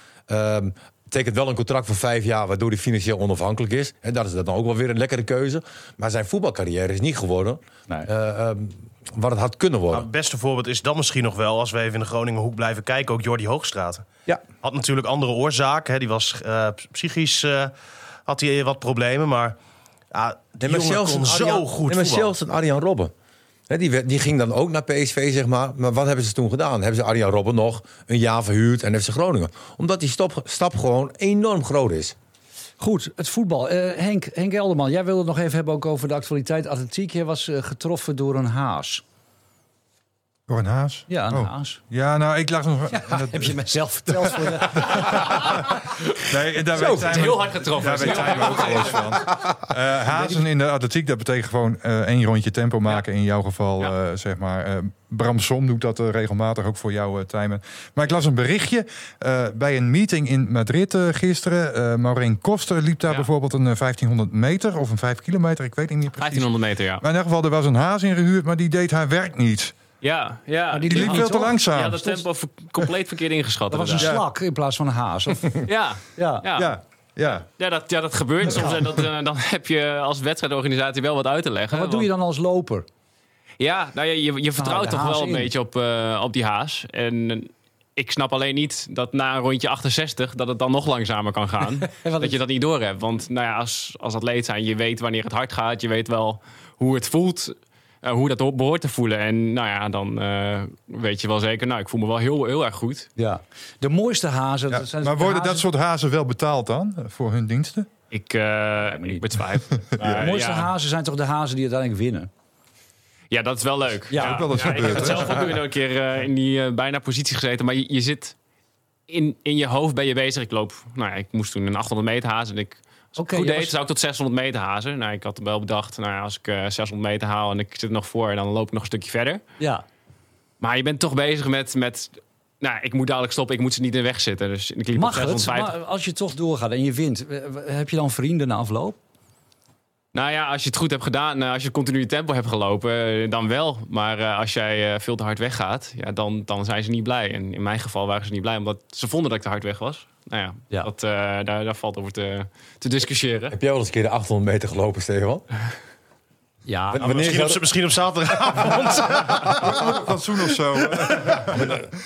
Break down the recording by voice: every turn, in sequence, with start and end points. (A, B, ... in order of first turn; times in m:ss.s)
0:00.3-0:10.1 A
0:09.9-0:14.0 B
0:14.6-0:17.7 B
0:18.3-0:19.6 B
0:20.1-0:22.3 B
0:20.6-0:23.1 A
0:23.7-0:32.1 A
0:32.8-0:39.0 C
0:40.5-1:09.7 D
0:41.1-0:41.8 C
0:42.9-0:45.6 C
0:45.0-0:45.6 E
0:46.7-0:49.2 E
0:46.7-0:47.4 A
0:48.3-0:48.6 A
0:50.1-0:50.4 C
1:06.2-1:07.0 E
1:10.0-1:14.2 E
1:10.7-1:12.2 C
1:10.9-1:12.0 D
1:13.7-1:15.5 C
1:14.0-1:14.3 D
1:15.6-1:16.7 E
1:16.2-1:16.4 C
1:16.5-1:17.5 D
1:17.6-1:22.1 E
1:18.5-1:18.7 D
1:21.7-1:22.8 C
1:23.6-1:43.1 E
1:24.6-1:25.5 C
1:31.9-1:32.3 C
1:43.2-1:45.6 C
1:44.7-1:47.9 D
1:48.1-1:50.7 E
1:48.8-1:49.2 C
1:49.7-1:50.3 D
1:50.0-1:52.3 C
1:53.3-1:58.3 E
1:54.1-1:54.6 C
1:54.2-1:55.5 D
1:59.1-2:09.4 E
2:03.2-2:03.7 C
2:10.6-2:15.7 E
2:14.9-2:19.0 C
2:20.1-2:33.6 E
2:33.5-2:35.4 A
2:36.6-2:37.4 C
2:36.9-2:37.6 A
2:37.1-2:39.9 B
2:39.6-2:41.8 D
2:41.5-2:41.8 A